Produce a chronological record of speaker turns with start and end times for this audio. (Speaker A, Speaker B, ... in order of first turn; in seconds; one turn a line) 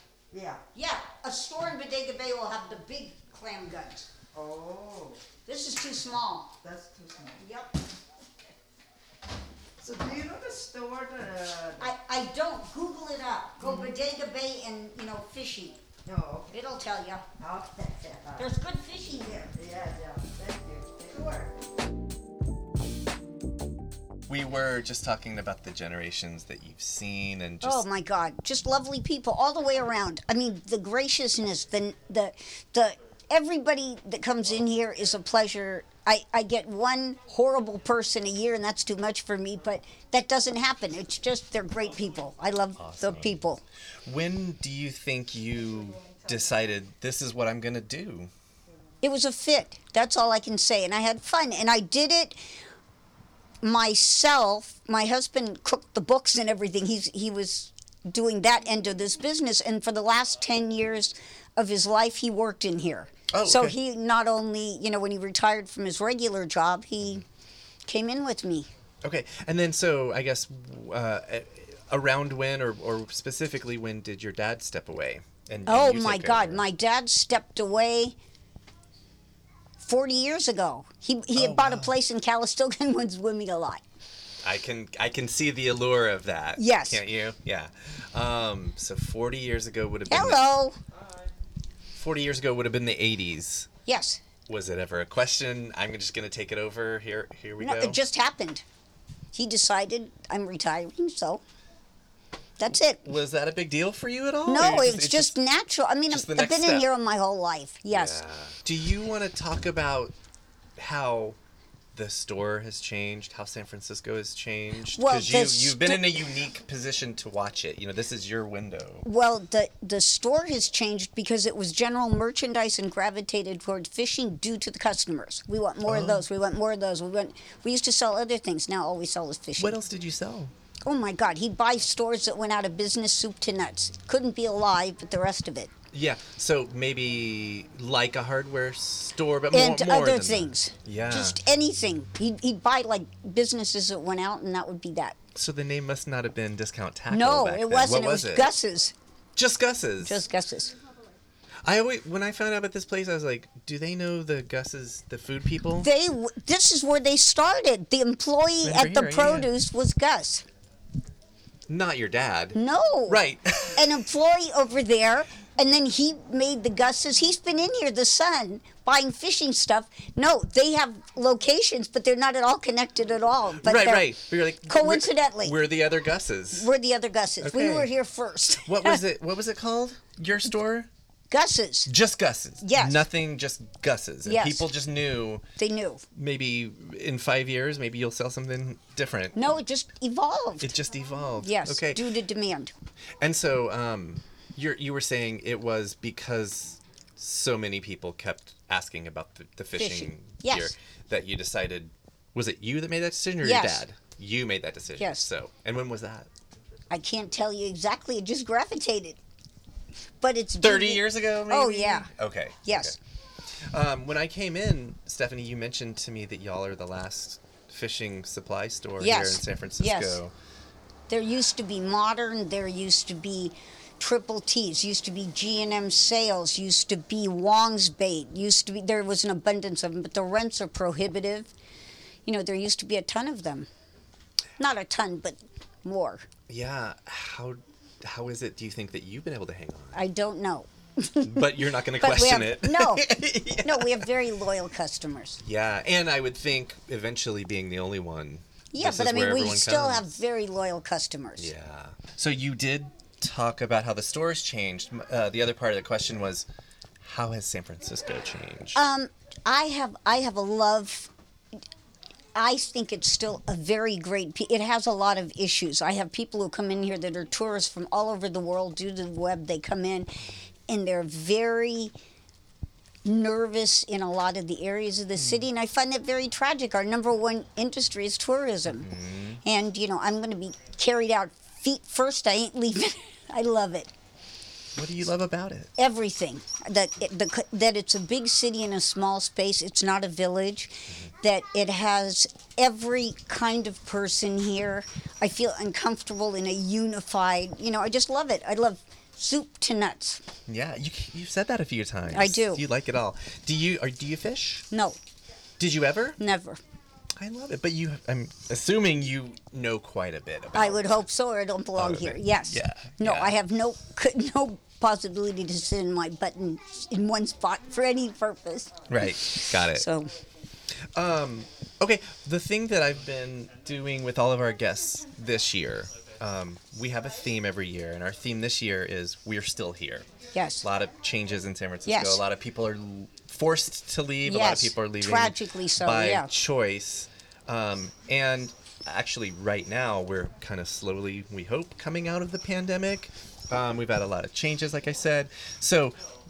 Speaker A: 0.3-0.6
Speaker B: 0.7-4.1
Speaker A: 4.3-5.2
Speaker B: 5.5-6.5
Speaker A: 6.6-7.4
Speaker B: 7.4-7.8
Speaker A: 9.8-11.9
Speaker B: 11.8-15.8
Speaker A: 13.6-13.9
Speaker A: 16.1-16.5
Speaker B: 16.5-17.2
Speaker A: 17.4-18.5
Speaker B: 18.4-19.5
Speaker A: 19.5-21.5
Speaker C: 24.3-27.9
Speaker B: 27.6-43.6
Speaker C: 42.7-43.4
Speaker C: 44.0-48.3
Speaker B: 49.0-52.4
Speaker B: 53.6-67.2
Speaker C: 63.3-63.8
Speaker B: 67.9-68.7
Speaker C: 69.0-76.6
Speaker B: 75.7-78.2
Speaker B: 79.8-83.8
Speaker C: 81.3-82.0
Speaker C: 84.4-90.4
Speaker B: 86.6-87.0
Speaker B: 90.1-90.8
Speaker C: 91.9-93.7
Speaker B: 93.8-94.2
Speaker C: 94.5-98.0
Speaker B: 97.6-98.6
Speaker B: 99.3-101.4
Speaker B: 102.6-103.0
Speaker C: 102.9-105.3
Speaker B: 104.5-108.2
Speaker C: 106.1-106.9
Speaker C: 107.9-110.1
Speaker C: 110.8-111.4
Speaker C: 111.9-119.1
Speaker B: 114.9-116.3
Speaker B: 119.0-129.8
Speaker C: 125.8-126.2
Speaker C: 129.6-130.5
Speaker B: 130.8-135.7
Speaker C: 135.9-141.4
Speaker B: 139.5-145.2
Speaker C: 145.3-148.5
Speaker B: 147.1-148.9
Speaker C: 149.3-150.2
Speaker B: 150.0-150.7
Speaker C: 151.6-155.9
Speaker B: 155.8-160.4
Speaker C: 158.6-159.5
Speaker C: 161.7-163.9
Speaker B: 162.5-174.1
Speaker C: 173.6-176.7
Speaker B: 174.7-175.6
Speaker B: 176.5-179.0
Speaker C: 177.4-177.9
Speaker C: 178.7-180.9
Speaker B: 181.3-181.9
Speaker C: 181.9-185.4
Speaker B: 182.6-183.1
Speaker B: 184.2-184.7
Speaker B: 185.6-186.0
Speaker C: 186.1-189.6
Speaker B: 189.3-190.8
Speaker C: 190.6-192.0
Speaker B: 191.4-192.7
Speaker C: 193.2-206.3
Speaker B: 199.8-200.7
Speaker B: 203.4-203.8
Speaker B: 205.0-205.2
Speaker B: 206.9-209.2
Speaker B: 210.2-212.1
Speaker C: 210.6-213.0
Speaker B: 212.6-212.9
Speaker C: 213.6-220.3
Speaker B: 219.0-220.2
Speaker B: 221.1-231.5
Speaker B: 232.2-233.7
Speaker B: 234.6-236.3
Speaker C: 236.5-240.1
Speaker B: 239.9-243.1
Speaker C: 241.2-244.1
Speaker B: 243.6-245.4
Speaker C: 245.4-250.2
Speaker B: 248.7-251.5
Speaker C: 251.4-256.5
Speaker C: 257.0-258.8
Speaker B: 258.7-261.1
Speaker B: 262.3-270.1
Speaker B: 270.7-271.9
Speaker B: 273.0-278.9
Speaker C: 275.2-275.5
Speaker C: 278.6-279.4
Speaker B: 279.4-283.9
Speaker C: 284.7-285.7
Speaker B: 285.8-300.2
Speaker C: 300.5-304.7
Speaker B: 302.1-302.6
Speaker B: 304.7-305.0
Speaker C: 305.6-306.2
Speaker B: 306.2-306.6
Speaker C: 307.1-311.0
Speaker B: 310.5-320.1
Speaker C: 311.7-313.3
Speaker C: 318.9-319.9
Speaker C: 320.9-330.1
Speaker B: 330.3-330.6
Speaker C: 330.6-346.0
Speaker B: 331.8-332.2
Speaker B: 334.2-336.3